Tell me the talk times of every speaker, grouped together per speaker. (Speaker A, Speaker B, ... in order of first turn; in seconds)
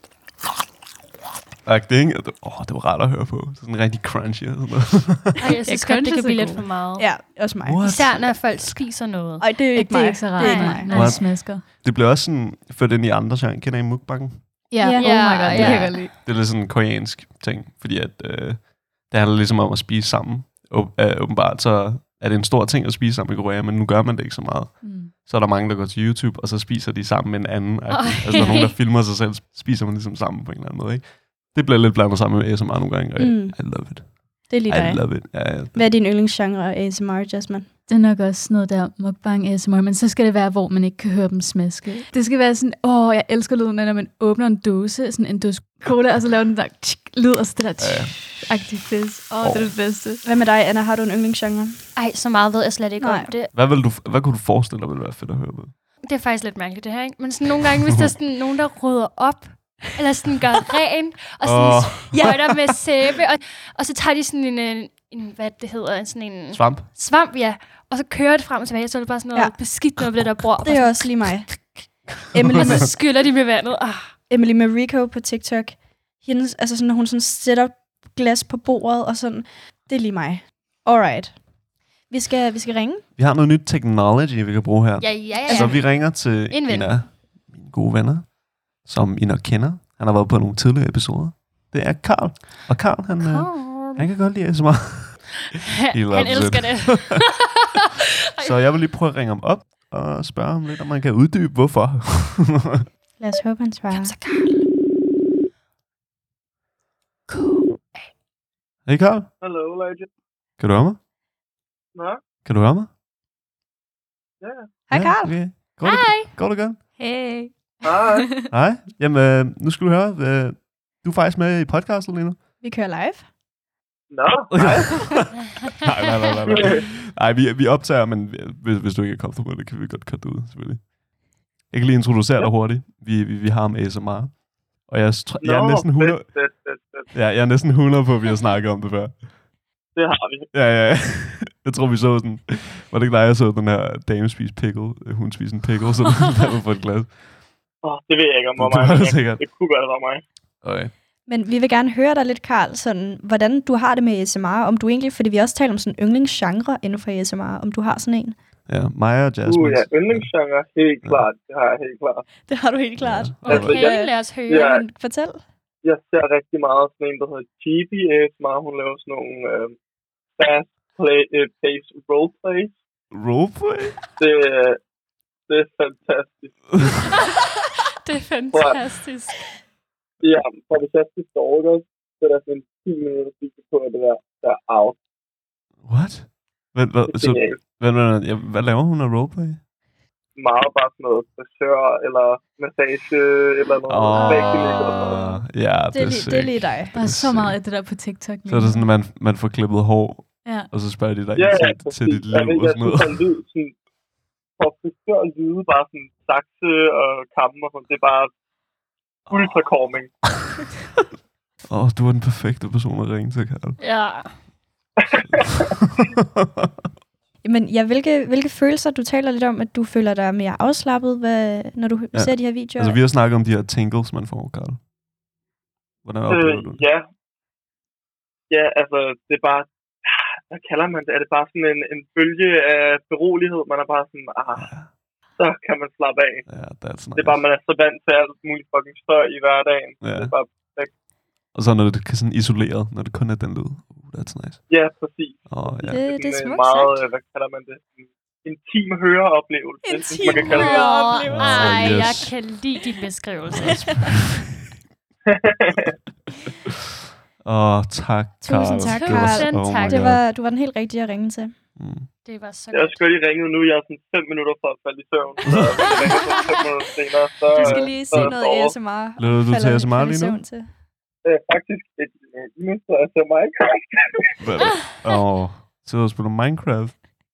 Speaker A: 1.6-5.4, 7.6-8.6, 10.9-14.4, 16.2-35.9, 47.8-48.2, 49.4-49.8, 53.5-55.7, 61.4-62.5, 66.5-66.9, 72.4-72.8, 83.2-97.2, 98.4-102.8, 108.8-109.3, 110.6-111.0, 112.4-112.9, 114.9-116.8, 118.5-122.4, 124.5-136.3, 137.1-139.2, 140.5-147.3, 148.6-149.4, 150.6-150.9, 158.7-160.3, 163.0-163.8, 173.1-173.9, 185.8-189.6, 193.9-197.6, 198.4-203.2, 209.3-209.7, 211.7-213.8, 222.1-224.8, 226.0-226.8, 234.5-234.9, 236.5-237.4, 240.0-240.3, 241.5-244.6, 245.5-246.0, 251.3-252.5, 253.6-254.2, 257.4-260.2, 261.8-262.1, 265.5-265.8, 268.1-268.4, 269.2-270.4, 274.4-277.0
Speaker B: 5.4-7.2, 7.8-9.5, 10.4-11.0, 14.9-16.0, 27.9-28.8, 52.0-53.5, 56.0-71.5, 72.4-74.1, 85.0-87.0, 93.2-94.1, 95.5-97.8, 103.9-104.7, 107.3-108.1, 115.8-116.3, 163.4-164.7, 178.0-179.4, 213.8-214.4, 250.2-254.1, 258.8-260.1, 262.2-263.0, 265.9-266.5
Speaker C: 5.7-6.7, 9.7-11.6, 14.7-16.1, 24.8-25.1, 37.9-50.2, 117.0-118.4, 196.9-198.9, 200.4-200.7
Speaker D: 7.0-7.8, 9.4-11.2, 14.8-15.9, 33.2-37.7, 50.2-51.8, 53.0-53.3, 62.1-62.4, 70.6-71.5, 72.3-72.9, 74.3-81.5, 82.0-83.0, 85.4-85.8, 103.2-104.2, 114.9-115.4, 122.6-123.3, 151.3-158.3, 162.4-165.4, 194.2-194.9, 195.9-196.9, 217.4-223.0, 245.9-247.0, 249.8-252.3, 258.4-261.6, 267.5-270.7
Speaker E: 109.4-110.1, 111.9-112.2, 114.4-114.7, 117.8-118.5, 124.1-125.2, 126.4-126.9, 135.4-137.1, 139.9-140.5, 147.8-150.2, 159.4-162.3, 163.4-164.8, 165.8-169.8, 170.4-172.8, 174.2-174.8, 175.5-177.1, 178.5-178.8, 180.2-185.0, 187.1-187.6, 190.3-195.4, 201.3-203.8, 204.6-208.3, 209.3-210.1, 215.0-215.6, 226.3-227.1, 228.5-234.8, 235.4-236.5, 237.1-240.9, 244.7-251.1, 255.3-255.9, 262.7-268.8, 271.2-274.3